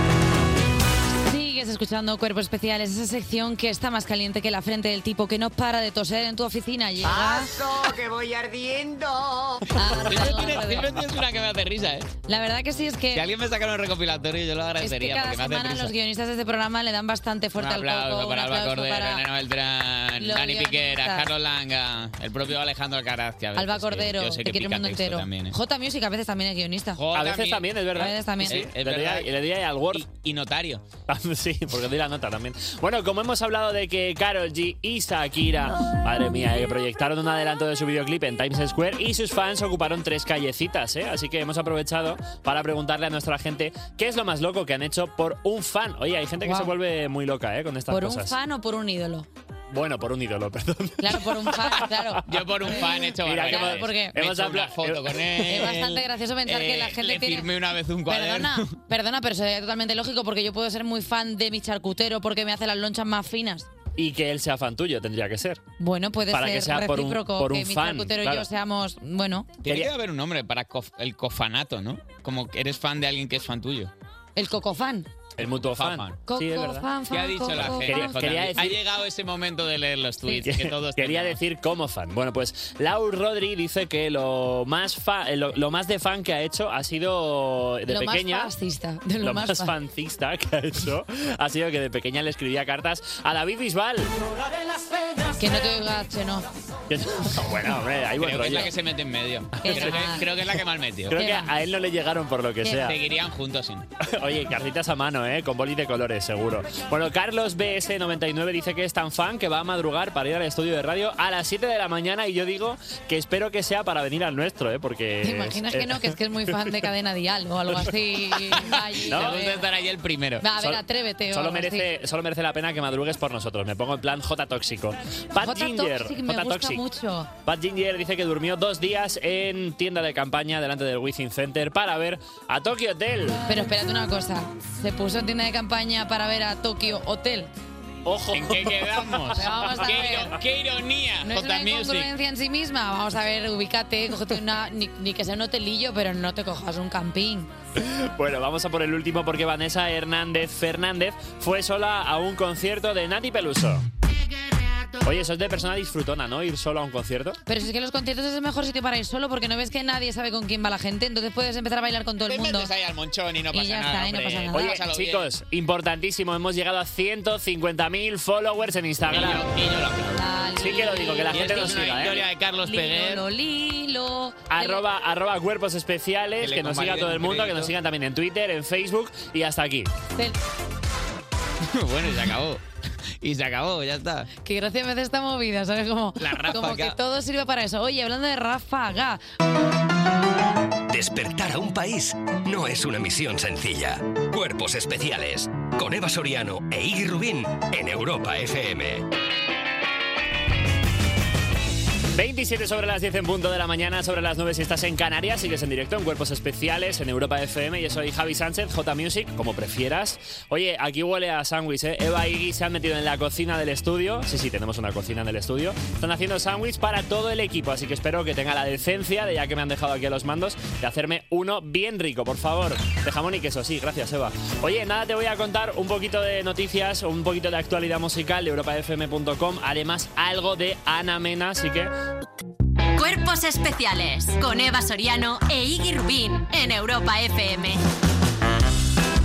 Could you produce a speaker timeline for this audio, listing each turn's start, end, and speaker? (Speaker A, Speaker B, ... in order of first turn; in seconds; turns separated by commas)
Speaker A: 1.2-7.5, Speaker A: 9.8-10.9, Speaker B: 9.8-12.1, Speaker A: 12.2-13.2, Speaker B: 13.1-15.9, Speaker A: 14.8-19.2, Speaker B: 17.6-25.5, Speaker A: 20.2-21.3, Speaker A: 23.5-27.0, Speaker B: 26.9-27.8, Speaker C: 27.1-30.1, Speaker A: 27.9-28.7, Speaker B: 28.4-29.3, Speaker B: 29.9-30.8, Speaker C: 31.1-48.4, Speaker A: 46.4-46.8, Speaker A: 47.9-49.3, Speaker C: 49.7-55.2, Speaker A: 51.0-54.2, Speaker B: 52.2-58.7, Speaker A: 55.4-57.5, Speaker A: 58.1-63.7, Speaker C: 64.0-65.6, Speaker A: 65.8-69.6, Speaker C: 66.3-68.5, Speaker C: 69.6-69.9, Speaker B: 69.6-73.9, Speaker A: 74.3-75.1, Speaker C: 75.4-76.9, Speaker B: 75.6-76.2, Speaker A: 76.2-78.7, Speaker B: 77.1-81.4, Speaker C: 77.5-78.8, Speaker C: 80.3-88.5, Speaker A: 87.9-89.7, Speaker C: 89.2-94.1, Speaker A: 95.4-96.5, Speaker C: 96.9-98.7, Speaker B: 98.2-101.1, Speaker C: 99.6-103.0, Speaker A: 99.6-100.3, Speaker A: 101.1-101.5, Speaker A: 102.6-102.9, Speaker B: 102.7-103.9, Speaker C: 104.0-116.7, Speaker A: 115.2-119.6, Speaker B: 118.6-120.5, Speaker C: 119.0-119.5, Speaker A: 120.4-121.9, Speaker C: 120.5-126.8, Speaker A: 125.4-127.3, Speaker C: 127.5-133.4, Speaker A: 133.4-137.5, Speaker C: 138.0-139.2, Speaker B: 138.3-142.1, Speaker A: 139.3-140.4, Speaker A: 141.2-147.5, Speaker C: 147.8-153.8, Speaker C: 155.0-157.4, Speaker A: 157.4-162.7, Speaker B: 162.2-165.3, Speaker A: 163.5-164.7, Speaker C: 164.5-169.4, Speaker B: 169.1-170.2, Speaker A: 170.1-174.8, Speaker C: 170.6-172.2, Speaker B: 171.3-173.2, Speaker C: 174.5-179.9, Speaker B: 176.4-177.7, Speaker B: 181.7-182.6, Speaker B: 183.2-184.3, Speaker A: 184.4-189.2, Speaker B: 186.2-187.0, Speaker D: 190.9-199.1, Speaker C: 202.1-231.9, Speaker E: 232.9-237.8